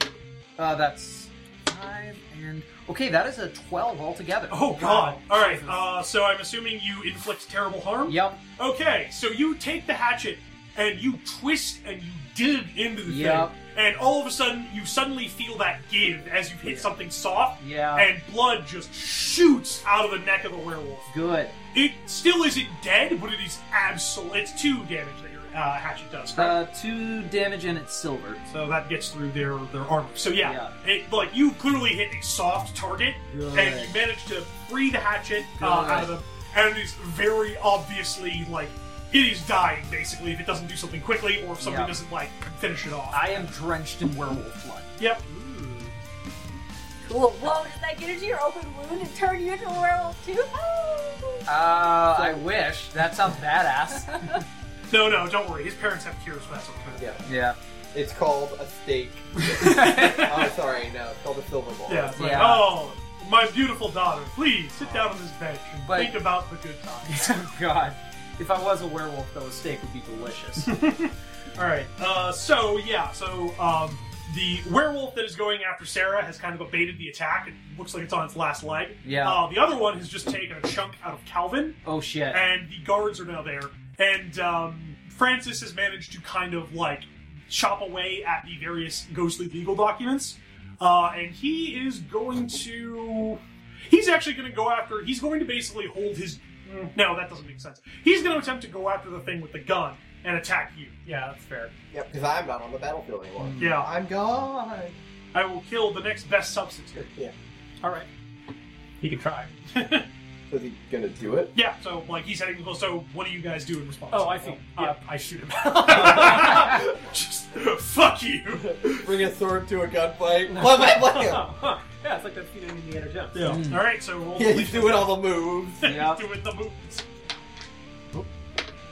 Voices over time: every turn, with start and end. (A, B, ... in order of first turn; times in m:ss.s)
0:00.6-0:05.7 A
0:04.5-0:21.1 B
0:05.4-0:05.7 C
0:08.1-0:08.4 A
0:13.1-0:13.5 A
0:16.6-0:16.9 A
0:17.6-0:18.1 A
0:21.1-0:21.6 A
0:21.7-0:26.6 B
0:26.4-0:28.4 A
0:28.5-0:43.5 B
0:30.4-0:30.7 A
0:33.3-0:33.9 A
0:35.6-0:36.1 A
0:41.6-0:42.0 A
0:43.1-0:44.9 A
0:45.3-0:45.9 C
0:47.0-0:51.4 D
0:51.5-0:54.1 A
0:52.1-0:52.4 E
0:53.9-0:54.4 D
0:54.9-0:57.0 B
0:57.0-0:57.2 E
0:57.2-0:57.6 A
0:57.9-1:02.4 E
0:59.5-1:00.5 A
1:00.0-1:00.4 B
1:01.9-1:07.4 B
1:02.2-1:02.7 A
1:05.8-1:06.2 A
1:07.0-1:10.7 A
1:10.6-1:40.9 B
1:19.0-1:19.4 A
1:21.8-1:22.4 A
1:41.1-1:41.7 C
1:41.9-1:45.0 E
1:43.4-1:43.7 C
1:43.6-1:43.9 B
1:45.3-1:47.0 B
1:47.0-1:47.3 E
1:47.8-1:48.1 C
1:49.0-1:49.5 C
1:49.7-1:50.1 B
1:50.5-1:51.5 E
1:51.5-1:59.1 B
1:54.1-1:55.0 C
1:58.6-2:01.5 E
2:00.5-2:03.6 C
2:03.3-2:05.3 B
2:03.4-2:03.8 A
2:04.4-2:05.8 E
2:05.8-2:07.0 B
2:05.8-2:06.2 A